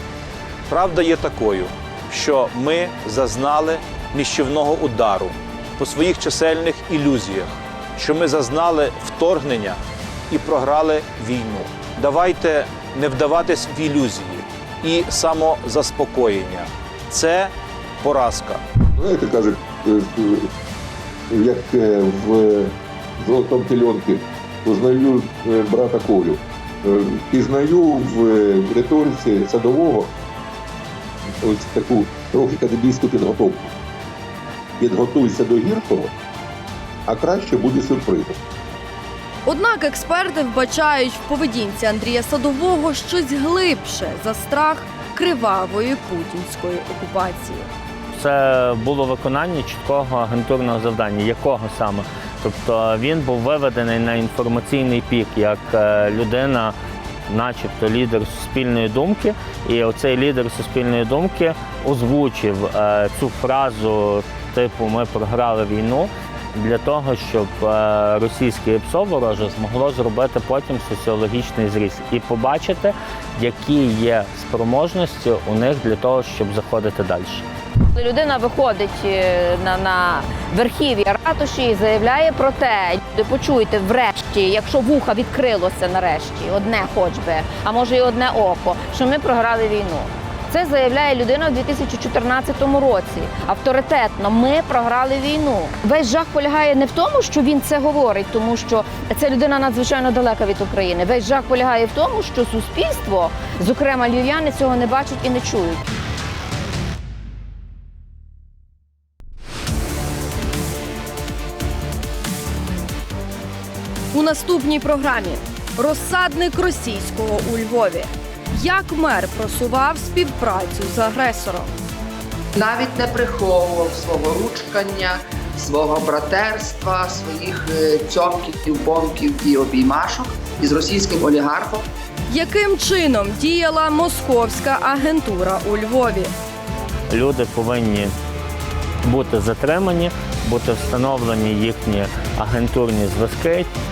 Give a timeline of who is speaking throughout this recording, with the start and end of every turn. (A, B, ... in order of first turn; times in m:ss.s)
0:00.7-0:18.6 A
0:19.0-0:20.5 B
0:21.3-0:30.1 B
0:31.4-0:33.7 B
0:34.8-0:36.1 B
0:37.1-0:38.4 B
0:39.4-0:47.7 C
0:48.1-0:56.8 D
0:57.3-1:17.4 D
1:17.9-1:45.8 E
1:54.1-2:01.7 C
2:02.6-2:11.8 F
2:12.3-2:16.3 C
2:17.1-2:18.1 D
2:19.0-2:23.7 D